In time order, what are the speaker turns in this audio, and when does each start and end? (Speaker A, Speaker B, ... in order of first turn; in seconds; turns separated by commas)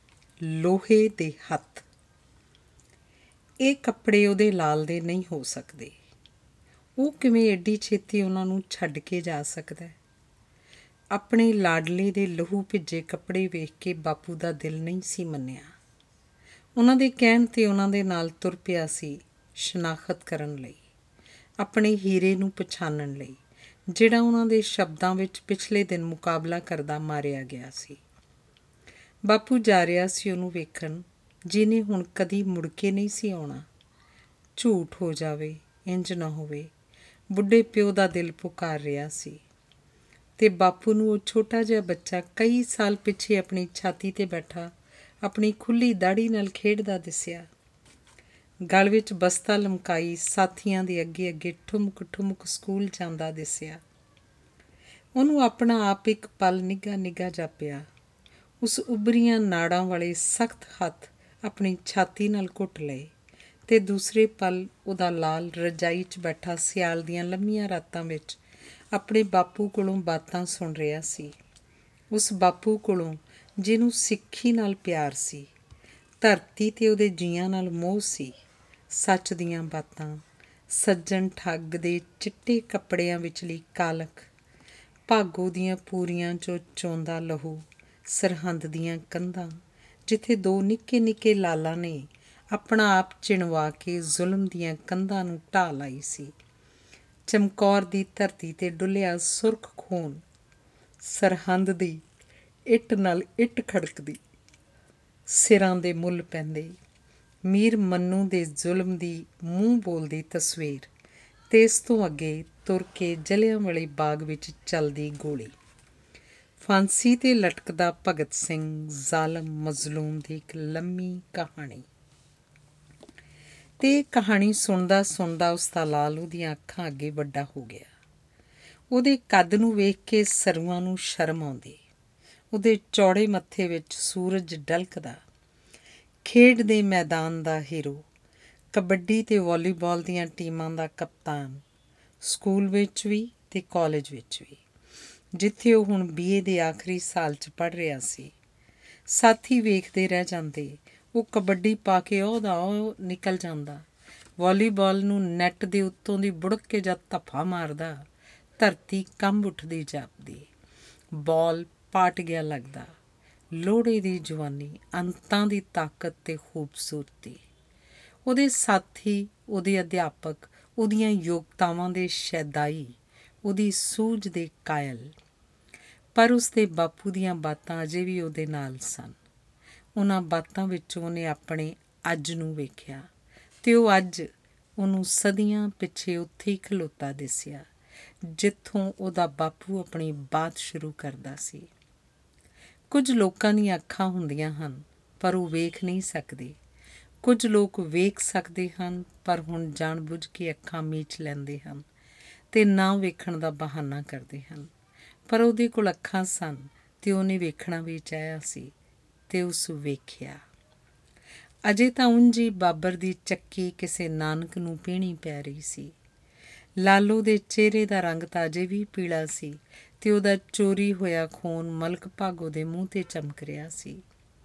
Speaker A: 0.4-1.9, Speaker A: 3.6-6.0, Speaker A: 7.0-9.9, Speaker A: 11.1-15.7, Speaker A: 16.8-20.8, Speaker A: 21.6-23.4, Speaker A: 23.9-28.0, Speaker A: 29.2-33.7, Speaker A: 34.6-36.7, Speaker A: 37.3-39.4, Speaker A: 40.4-47.5, Speaker A: 48.7-53.8, Speaker A: 55.2-57.9, Speaker A: 58.6-63.1, Speaker A: 63.7-68.4, Speaker A: 68.9-71.3, Speaker A: 72.1-75.5, Speaker A: 76.2-78.3, Speaker A: 78.9-84.3, Speaker A: 85.1-89.5, Speaker A: 90.1-96.3, Speaker A: 97.3-100.2, Speaker A: 101.0-102.0, Speaker A: 102.7-104.2, Speaker A: 105.3-106.8, Speaker A: 107.5-110.9, Speaker A: 111.5-115.5, Speaker A: 116.6-121.9, Speaker A: 123.8-127.9, Speaker A: 128.9-131.8, Speaker A: 132.5-135.2, Speaker A: 136.2-138.1, Speaker A: 138.7-141.6, Speaker A: 142.2-144.6, Speaker A: 145.3-148.3, Speaker A: 149.1-153.8, Speaker A: 154.4-158.0, Speaker A: 158.6-160.5, Speaker A: 161.1-162.9, Speaker A: 163.6-167.4, Speaker A: 168.3-175.1, Speaker A: 176.1-179.2, Speaker A: 179.9-183.1, Speaker A: 183.6-187.7, Speaker A: 188.2-191.7, Speaker A: 192.9-196.6, Speaker A: 197.2-201.8, Speaker A: 202.5-204.7, Speaker A: 205.3-208.8, Speaker A: 209.3-210.4, Speaker A: 211.7-215.9, Speaker A: 216.8-224.0